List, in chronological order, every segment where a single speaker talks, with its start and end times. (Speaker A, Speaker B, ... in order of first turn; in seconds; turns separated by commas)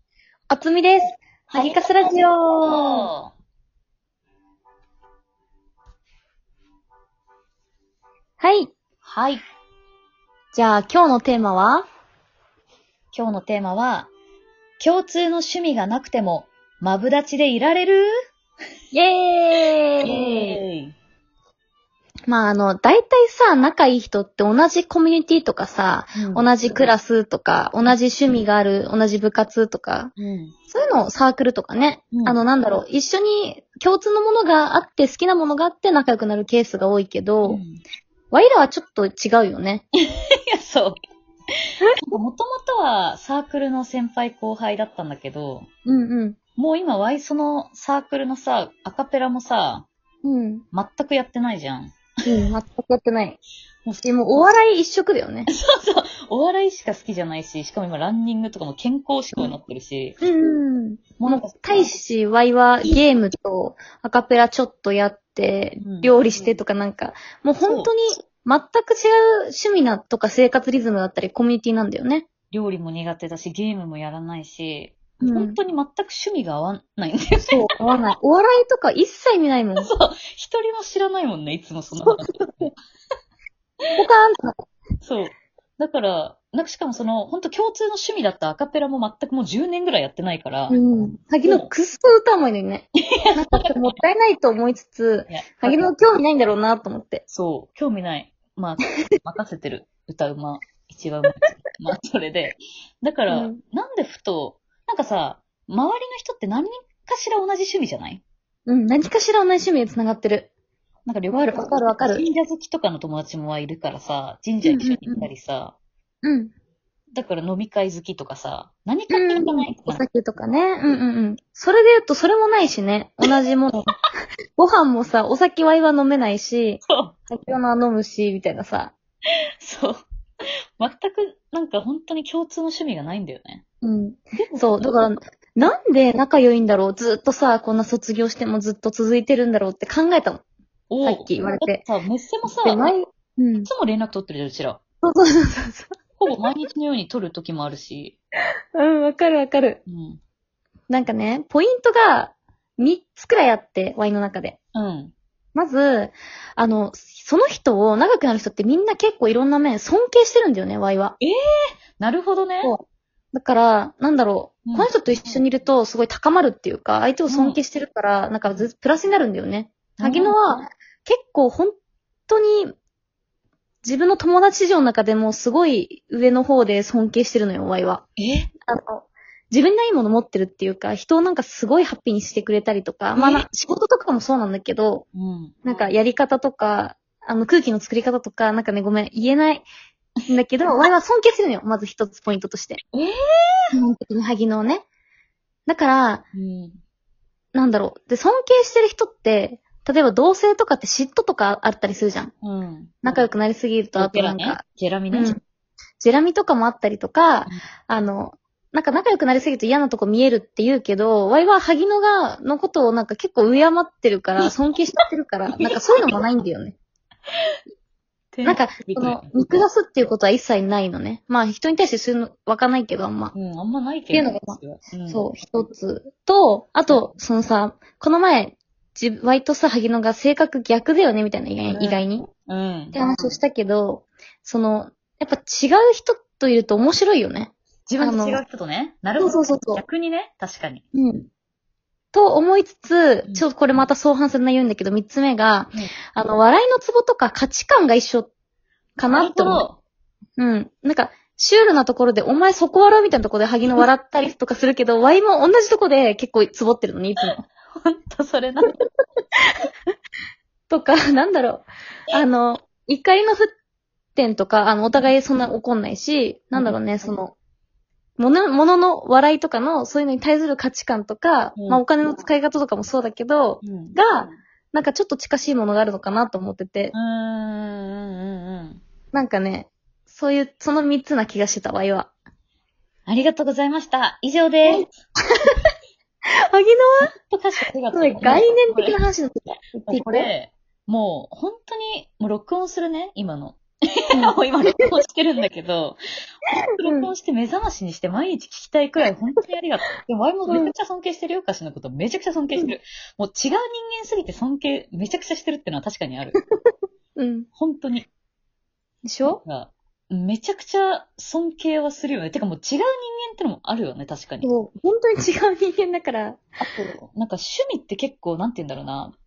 Speaker A: 0.5-3.1, Speaker B: 1.5-2.1, Speaker B: 2.6-3.3, Speaker A: 8.4-8.7, Speaker B: 9.0-9.4, Speaker A: 10.5-11.9, Speaker B: 13.1-14.1, Speaker B: 14.8-18.1, Speaker A: 18.9-20.6, Speaker B: 20.0-21.0, Speaker A: 22.3-30.1, Speaker B: 26.1-26.5, Speaker B: 30.2-30.5, Speaker A: 30.7-37.6, Speaker B: 32.1-32.4, Speaker B: 37.4-37.8, Speaker A: 38.3-39.9, Speaker B: 40.5-41.0, Speaker A: 41.8-42.2, Speaker B: 42.0-45.7, Speaker A: 45.9-46.4, Speaker B: 46.6-49.9, Speaker A: 50.2-50.6, Speaker B: 50.7-52.1, Speaker A: 52.2-53.4, Speaker A: 54.0-55.5, Speaker B: 55.5-60.2, Speaker A: 60.2-72.3, Speaker B: 61.2-61.5, Speaker B: 65.8-66.6, Speaker B: 67.7-67.9, Speaker B: 72.5-77.7, Speaker A: 75.2-75.6, Speaker A: 77.5-79.9, Speaker B: 79.8-82.7, Speaker A: 81.9-82.7, Speaker A: 84.0-84.5, Speaker B: 85.0-90.8, Speaker A: 90.7-97.2, Speaker B: 91.5-91.7, Speaker B: 93.2-93.9, Speaker B: 95.3-95.8, Speaker B: 97.3-108.2, Speaker A: 103.3-103.6, Speaker A: 108.7-110.5, Speaker B: 111.1-115.8, Speaker A: 111.3-112.2, Speaker A: 114.7-115.3, Speaker A: 116.2-116.5, Speaker B: 117.1-120.0, Speaker A: 119.1-123.9, Speaker A: 124.6-128.9, Speaker B: 126.8-127.2, Speaker B: 129.6-130.0, Speaker B: 130.8-133.6, Speaker A: 133.8-140.4, Speaker B: 134.4-135.1, Speaker B: 140.9-142.9, Speaker A: 141.0-141.8, Speaker A: 142.6-143.7, Speaker B: 143.6-144.8, Speaker A: 145.0-145.9, Speaker B: 146.2-148.2, Speaker A: 148.8-149.8, Speaker B: 149.9-150.2, Speaker A: 150.9-154.6, Speaker B: 154.8-155.1, Speaker A: 155.6-161.2, Speaker B: 162.0-162.7, Speaker A: 162.6-171.8, Speaker B: 164.7-165.4, Speaker B: 167.3-167.6, Speaker B: 170.0-170.4, Speaker A: 172.3-172.7, Speaker A: 173.8-178.1, Speaker B: 178.2-178.5, Speaker A: 178.7-185.1, Speaker B: 183.2-183.5, Speaker B: 185.1-185.9, Speaker A: 185.6-189.7, Speaker A: 190.3-192.8, Speaker B: 192.9-193.7, Speaker A: 193.7-194.8, Speaker A: 195.7-196.2, Speaker B: 196.3-196.8, Speaker A: 197.5-202.3, Speaker B: 202.4-203.3, Speaker A: 203.0-205.4, Speaker B: 203.9-205.3, Speaker A: 206.0-216.8, Speaker B: 218.3-219.3, Speaker A: 218.4-223.3, Speaker B: 223.3-225.3, Speaker A: 224.1-232.3, Speaker B: 231.7-233.4, Speaker A: 232.9-238.4, Speaker B: 237.9-240.8, Speaker A: 239.2-239.8, Speaker A: 240.9-241.3, Speaker A: 242.1-248.3, Speaker A: 249.0-249.7, Speaker B: 249.1-249.8, Speaker A: 250.4-257.4, Speaker B: 257.2-258.7, Speaker A: 260.7-263.5, Speaker A: 264.2-267.3, Speaker A: 268.2-276.9, Speaker B: 271.6-271.8, Speaker B: 273.6-274.4, Speaker B: 276.9-278.8, Speaker A: 279.1-282.1, Speaker B: 283.1-284.9, Speaker A: 286.5-287.1, Speaker B: 287.0-289.0, Speaker A: 287.9-290.3, Speaker B: 289.9-296.0, Speaker B: 296.8-306.4, Speaker A: 296.8-297.1, Speaker A: 300.5-300.7, Speaker A: 307.2-307.5, Speaker B: 307.5-308.1, Speaker A: 309.0-309.4, Speaker B: 309.2-314.5, Speaker A: 314.4-317.0, Speaker B: 317.0-319.1